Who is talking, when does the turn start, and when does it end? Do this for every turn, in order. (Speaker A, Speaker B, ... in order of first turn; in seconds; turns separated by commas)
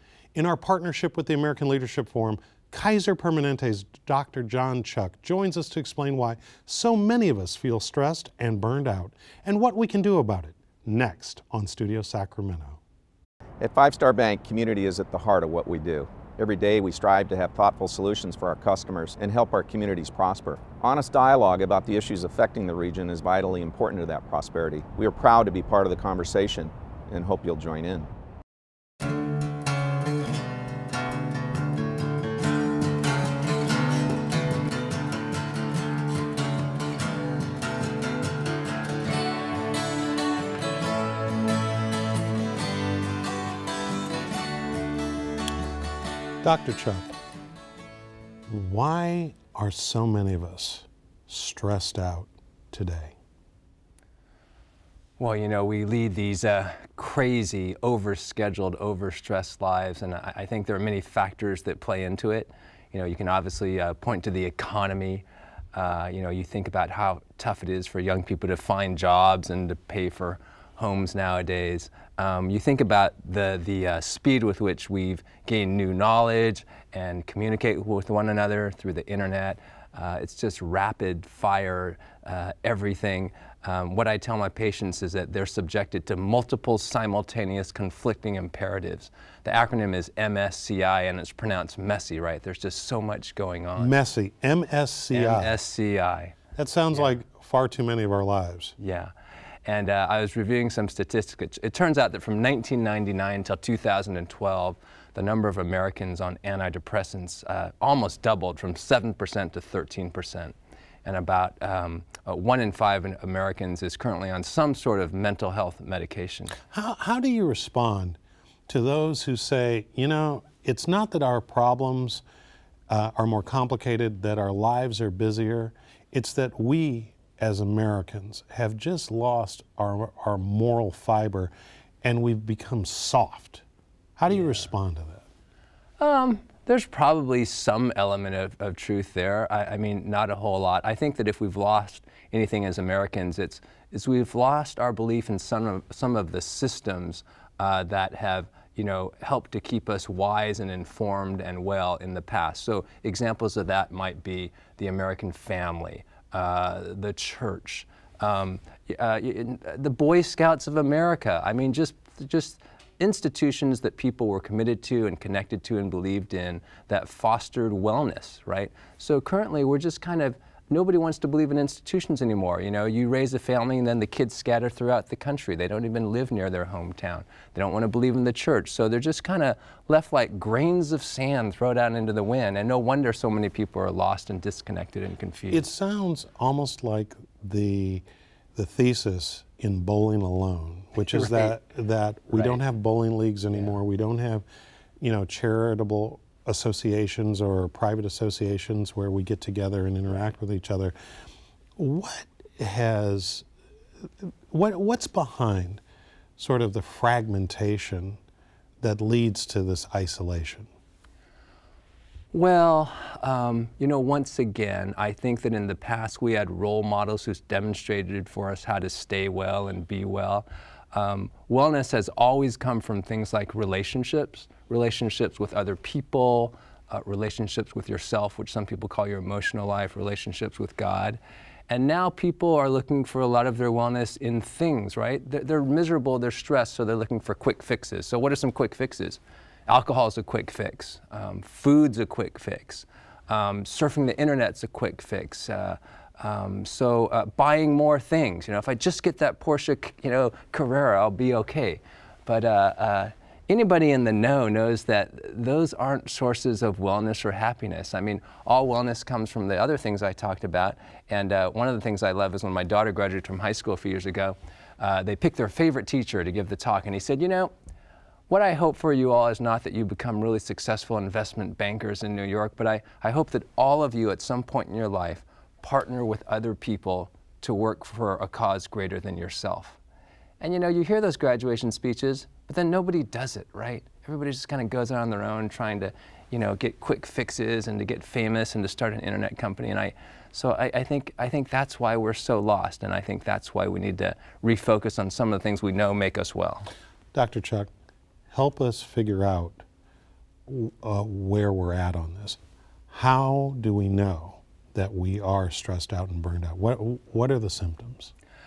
Speaker A: 0.3-12.8, Speaker B: 13.6-28.1, Speaker A: 46.4-47.1, Speaker A: 48.5-53.1, Speaker C: 55.2-93.9, Speaker A: 93.8-95.5, Speaker C: 95.1-96.3, Speaker A: 96.5-98.8, Speaker C: 98.8-99.1, Speaker C: 99.7-116.6, Speaker A: 116.7-122.2, Speaker A: 122.9-133.6, Speaker A: 134.2-135.2, Speaker C: 136.0-185.7, Speaker A: 185.5-194.4, Speaker C: 191.1-191.5, Speaker C: 192.3-192.6, Speaker A: 195.0-200.9, Speaker A: 201.8-203.5, Speaker A: 204.0-205.8, Speaker A: 206.4-208.2, Speaker A: 208.8-210.7, Speaker C: 212.3-267.5, Speaker C: 268.3-279.8, Speaker C: 280.4-296.7, Speaker A: 297.1-297.7, Speaker A: 298.3-299.6, Speaker A: 300.5-308.1